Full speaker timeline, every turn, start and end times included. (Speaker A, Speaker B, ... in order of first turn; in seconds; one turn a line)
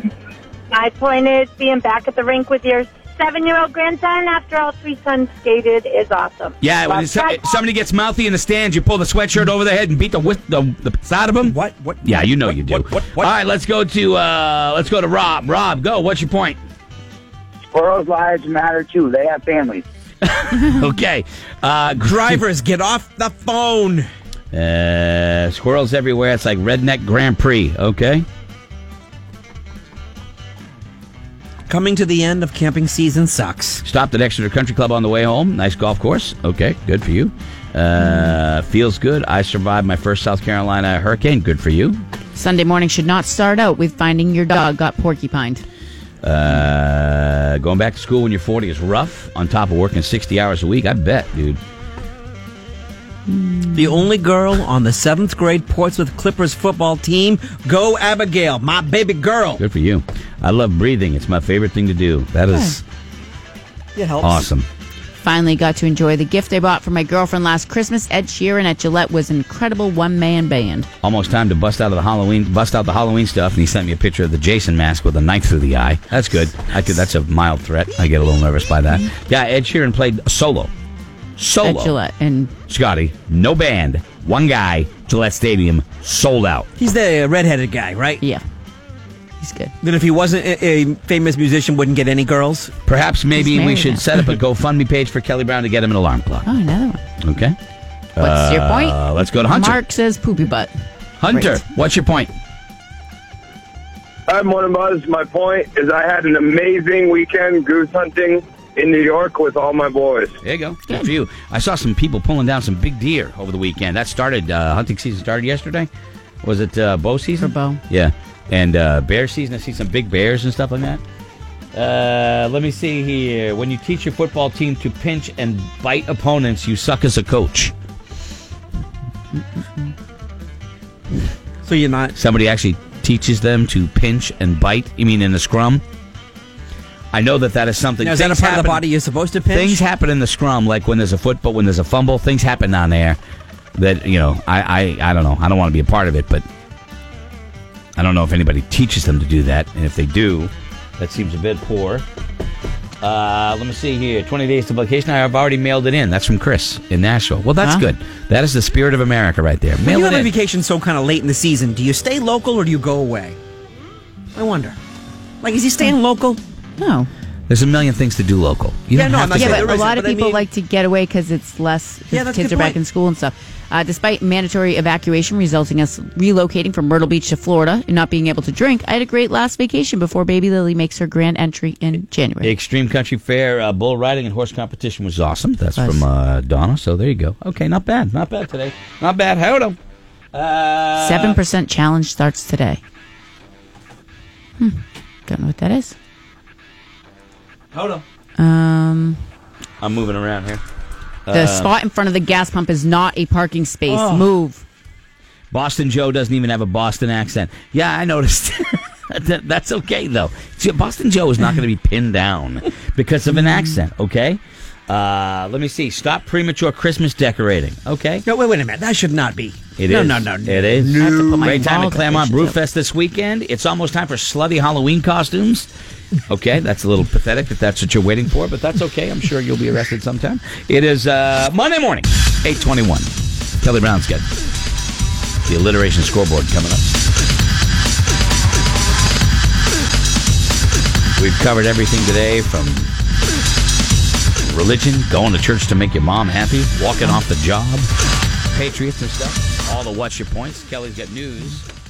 Speaker A: 0.7-7.4
Speaker B: 6.6-16.6
Speaker C: 11.4-13.3
Speaker B: 20.2-22.4
Speaker C: 22.0-24.1
Speaker B: 24.5-28.3
Speaker C: 31.7-33.8
Speaker B: 33.8-42.0
Speaker D: 42.4-45.6
Speaker B: 46.2-51.6
Speaker C: 53.7-59.6
Speaker B: 59.6-62.8
Speaker D: 62.5-62.8
Speaker C: 64.0-64.5
Speaker B: 64.2-64.7
Speaker D: 65.2-70.9
Speaker B: 71.0-80.7
Speaker B: 81.4-82.0
Speaker D: 81.6-82.5
Speaker B: 82.7-86.7
Speaker C: 86.8-88.2
Speaker D: 89.4-89.7
Speaker C: 89.8-92.7
Speaker B: 92.8-96.5
Speaker D: 93.3-94.1
Speaker D: 96.4-97.0
Speaker B: 97.2-97.6
Speaker B: 98.2-99.8
Speaker D: 98.2-100.7
Speaker B: 101.2-102.3
Speaker E: 104.3-110.3
Speaker B: 110.4-115.9
Speaker B: 116.4-121.0
Speaker D: 117.4-117.8
Speaker B: 121.7-127.7
Speaker C: 131.6-132.2
Speaker B: 132.2-135.8
Speaker B: 137.1-138.8
Speaker C: 138.0-139.8
Speaker B: 139.5-143.2
Speaker B: 143.8-146.4
Speaker B: 148.0-152.1
Speaker B: 153.0-160.3
Speaker C: 159.8-163.4
Speaker C: 164.3-164.8
Speaker C: 165.4-166.4
Speaker D: 166.8-167.1
Speaker B: 167.5-169.9
Speaker C: 168.9-170.4
Speaker D: 169.3-182.6
Speaker C: 172.1-172.8
Speaker B: 182.4-189.8
Speaker D: 185.8-186.0
Speaker B: 190.3-191.4
Speaker D: 191.0-192.8
Speaker D: 194.6-195.9
Speaker B: 197.7-198.0
Speaker D: 198.4-199.2
Speaker B: 199.8-200.6
Speaker B: 201.3-201.7
Speaker D: 201.3-204.6
Speaker C: 203.9-204.2
Speaker B: 205.5-218.2
Speaker C: 218.3-221.8
Speaker B: 219.8-225.7
Speaker D: 221.0-222.5
Speaker B: 226.3-234.2
Speaker B: 235.5-236.9
Speaker B: 241.2-242.9
Speaker B: 244.4-247.9
Speaker B: 248.5-251.7